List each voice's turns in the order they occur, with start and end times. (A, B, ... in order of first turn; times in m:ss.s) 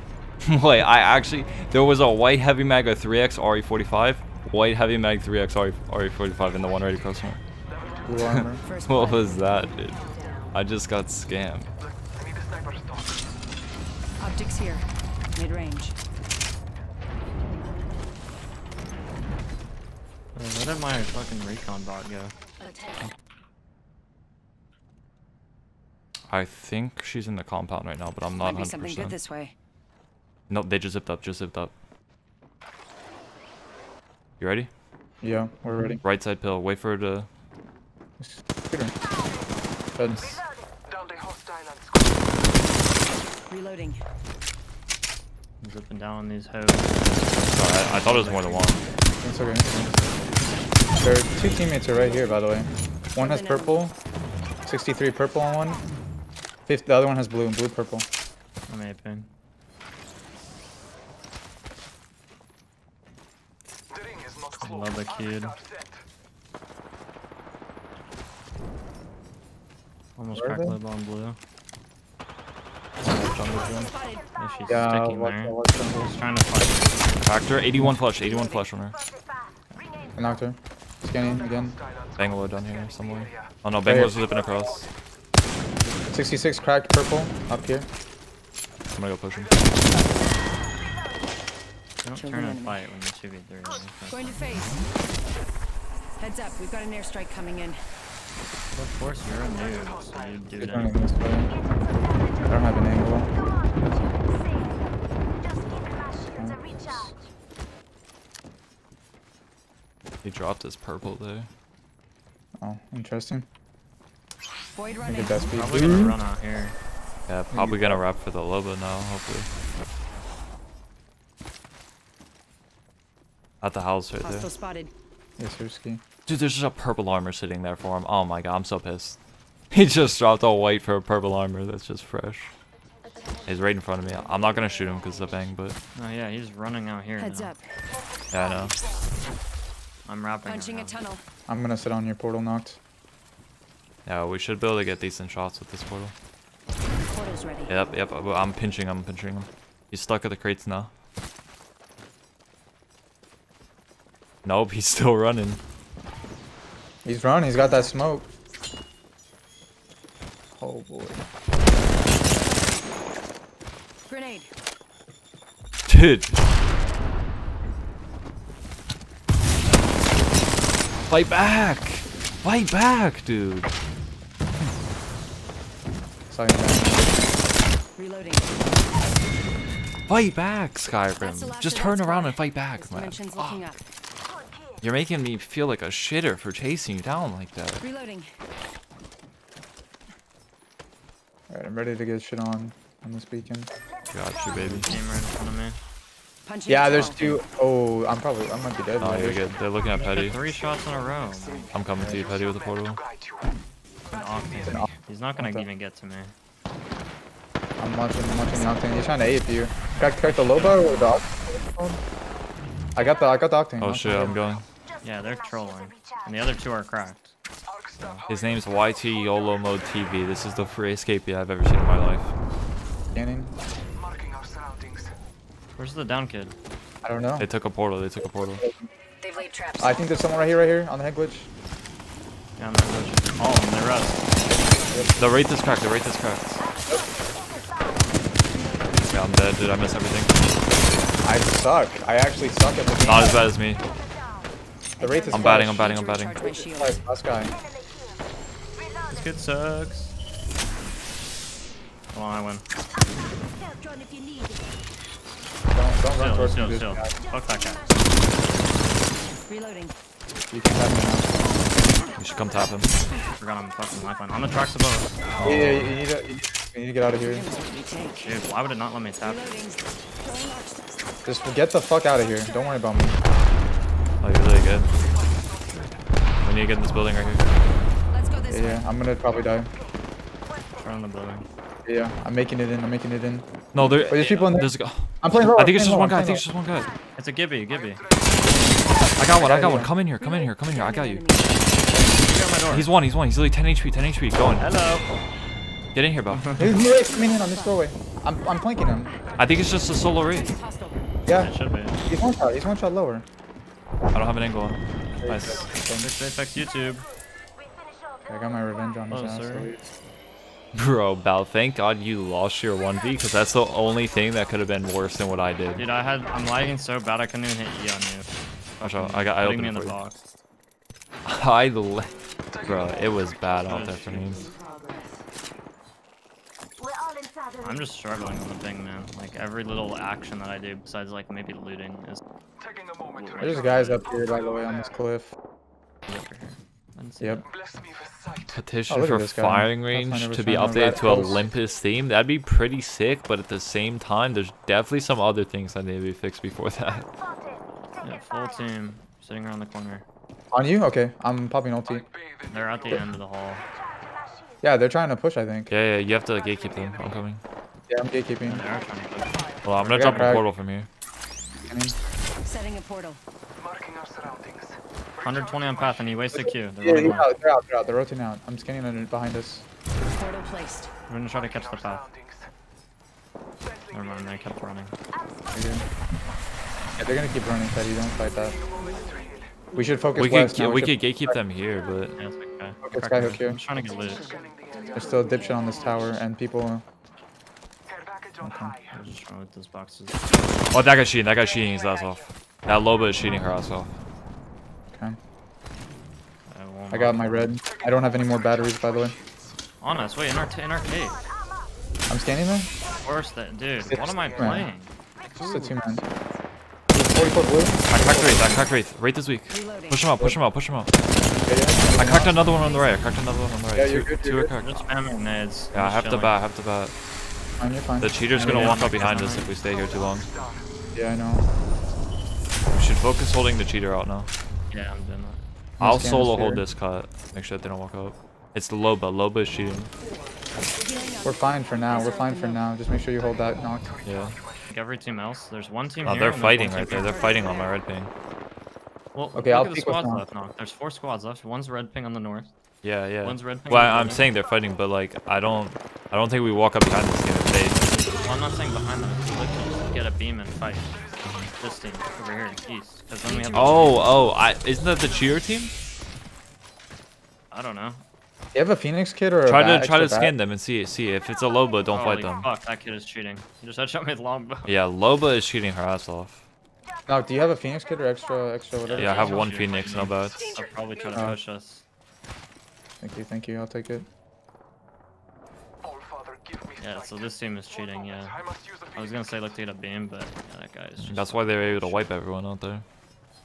0:00.4-0:07.4 A
0:08.0-0:08.6 B
0:08.2-0:11.7 A
0:08.6-0:09.6 C
0:14.2-0:15.9 C
0:20.4-0:22.4 D
0:26.3-0:29.2 A
0:28.4-0:29.5 C
0:30.5-0:31.7 A
0:34.4-0:34.7 A
0:35.2-0:36.0 B
0:36.0-0:37.3 A
0:38.2-0:39.0 B
0:40.0-0:40.4 B
0:43.5-0:44.0 C
0:45.6-0:48.8 D
0:47.5-0:48.8 A
0:49.2-0:50.2 B
0:51.0-0:53.9 B
0:53.2-0:53.8 C
0:54.7-0:55.8 B
0:56.7-0:58.1 B
0:58.7-0:59.3 D
1:04.6-1:05.6 D
1:10.2-1:11.4 D
1:10.4-1:10.8 B
1:13.0-1:16.9 D
1:13.8-1:14.2 C
1:14.7-1:16.1 B
1:17.2-1:19.0 A
1:20.2-1:21.8 B
1:22.2-1:24.9 A
1:23.8-1:24.3 B
1:26.1-1:27.9 B
1:28.9-1:29.8 A
1:32.0-1:34.4 D
1:32.1-1:32.8 C
1:34.1-1:34.8 C
1:36.2-1:37.8 C
1:38.7-1:41.0 D
1:40.6-1:41.6 B
1:42.4-1:43.3 B
1:46.2-1:47.2 B
1:50.2-1:51.5 A
1:52.6-1:53.5 B
1:54.8-1:55.5 C
1:55.0-1:56.2 B
1:55.6-1:56.8 D
1:57.3-1:59.5 A
1:57.5-1:58.0 B
2:03.6-2:04.5 A
2:04.2-2:04.9 C
2:05.4-2:06.0 B
2:06.3-2:09.2 A
2:09.7-2:12.5 A
2:13.5-2:15.8 A
2:16.0-2:17.5 D
2:17.2-2:17.6 C
2:18.3-2:18.8 A
2:20.1-2:21.0 D
2:20.4-2:21.2 C
2:21.5-2:22.8 B
2:24.1-2:26.1 A
2:27.1-2:27.7 C
2:27.7-2:30.9 A
2:34.4-2:35.6 A
2:37.0-2:38.3 B
2:40.5-2:41.3 B
2:44.1-2:44.5 C
2:45.9-2:46.4 A
2:51.1-2:53.7 A
2:56.3-2:57.1 B
2:58.0-2:58.5 C
3:00.1-3:03.6 A
3:01.2-3:03.8 C
3:04.8-3:07.8 A
3:07.8-3:08.3 C
3:11.5-3:13.7 B
3:14.1-3:14.9 A
3:14.5-3:15.8 D
3:16.4-3:17.4 C
3:16.7-3:19.4 B
3:19.0-3:20.4 A
3:19.9-3:21.7 D
3:21.7-3:23.0 A
3:24.1-3:26.3 D
3:24.6-3:25.7 B
3:27.8-3:32.0 B
3:28.5-3:29.4 C
3:30.2-3:31.2 D
3:33.0-3:34.4 B
3:33.8-3:34.7 A
3:35.0-3:37.4 D
3:38.0-3:38.3 D
3:38.3-3:42.3 A
3:43.1-3:43.5 B
3:45.8-3:46.6 D
3:47.0-3:47.5 B
3:47.4-3:48.6 A
3:48.2-3:48.9 B
3:49.2-3:50.0 C
3:49.8-3:51.5 B
3:52.6-3:54.3 D
3:54.9-3:55.2 B
3:55.2-3:56.6 A
3:58.6-3:59.0 C
3:59.1-4:00.4 A
4:01.2-4:03.4 B
4:03.0-4:03.8 A
4:05.0-4:07.0 C
4:05.0-4:07.6 B
4:05.3-4:06.4 A
4:09.1-4:10.2 D
4:12.1-4:12.6 D
4:15.7-4:17.1 B
4:16.1-4:17.9 D
4:19.5-4:19.9 C
4:20.5-4:21.5 B
4:22.2-4:22.9 A
4:23.4-4:25.6 D
4:25.4-4:27.5 B
4:25.4-4:26.0 A
4:27.2-4:28.3 C
4:28.2-4:29.6 D
4:29.2-4:30.9 C
4:31.2-4:33.2 B
4:34.2-4:34.9 A
4:36.4-4:37.4 A
4:38.1-4:38.9 C
4:38.5-4:39.7 B
4:40.8-4:41.5 D
4:41.8-4:46.4 B
4:43.7-4:46.9 A
4:47.2-4:48.0 D
4:49.2-4:51.2 A
4:49.4-4:49.9 B
4:50.2-4:51.8 C
4:51.9-4:52.9 D
4:52.7-4:54.7 A
4:54.6-4:55.1 D
4:55.9-4:56.6 A
4:56.3-4:56.8 D
4:56.6-4:59.2 B
4:57.2-4:57.8 C
4:59.4-5:00.6 A
5:00.4-5:01.0 C
5:01.3-5:03.3 B
5:01.4-5:02.1 D
5:04.1-5:05.7 A
5:05.2-5:06.1 B
5:06.0-5:07.1 D
5:08.3-5:09.8 B
5:09.1-5:09.7 D
5:10.7-5:15.9 A
5:15.8-5:20.2 D
5:18.8-5:20.0 A
5:21.2-5:24.5 A
5:23.7-5:24.5 D
5:27.6-5:32.2 D
5:33.0-5:34.2 D
5:33.4-5:35.3 B
5:36.1-5:37.5 D
5:38.5-5:47.1 A
5:38.9-5:41.5 B
5:48.0-5:50.0 D
5:50.5-5:52.1 B
5:52.5-5:53.7 D
5:54.6-5:55.7 B
5:55.7-5:57.4 A
5:57.9-5:58.6 B
5:58.4-6:00.4 D
5:59.6-6:00.9 A
5:59.8-6:00.4 B
6:01.7-6:02.0 B
6:02.4-6:03.2 C
6:05.2-6:07.3 D
6:06.4-6:09.6 B
6:10.1-6:10.9 C
6:11.1-6:12.1 D
6:13.9-6:15.0 D
6:15.5-6:15.9 B
6:17.0-6:18.6 B
6:19.7-6:21.4 B
6:20.2-6:22.2 A
6:22.2-6:24.4 D
6:22.8-6:23.6 B
6:24.9-6:26.8 B
6:28.4-6:28.8 B
6:28.9-6:30.4 D
6:30.7-6:34.0 A
6:34.9-6:35.2 B
6:36.5-6:37.5 D
6:36.9-6:39.2 B
6:39.8-6:41.3 D
6:42.1-6:42.7 B
6:43.0-6:44.9 D
6:43.8-6:44.7 B
6:45.4-6:46.0 B
6:45.4-6:45.7 A
6:46.9-6:48.7 B
6:47.9-6:50.9 A
6:49.5-6:50.0 C
6:51.5-6:52.5 B
6:51.9-6:54.9 A
6:53.7-6:54.5 B
6:54.6-6:56.4 D
6:55.7-6:57.0 A
6:57.6-6:58.8 B
6:58.0-7:00.3 A
6:58.3-6:59.6 D
7:00.9-7:01.4 B
7:02.7-7:04.3 A
7:04.7-7:05.4 D
7:05.8-7:06.6 B
7:05.8-7:09.9 A
7:10.8-7:12.6 C
7:11.2-7:14.0 B
7:14.0-7:14.4 A
7:14.7-7:17.4 D
7:16.0-7:18.1 A
7:17.0-7:17.7 C
7:19.1-7:22.5 D
7:19.4-7:20.2 B
7:22.8-7:27.9 A
7:23.2-7:24.3 D
7:27.9-7:31.0 D
7:31.6-7:34.3 D
7:33.3-7:34.2 C
7:33.5-7:35.7 A
7:37.5-7:38.0 D
7:38.5-7:40.3 B
7:39.4-7:42.5 A
7:41.9-7:44.7 D
7:44.6-7:46.4 A
7:47.1-7:49.4 B
7:48.9-7:51.8 D
7:48.9-7:50.5 A
7:53.0-7:54.1 B
7:56.8-8:02.0 D
8:01.0-8:02.8 A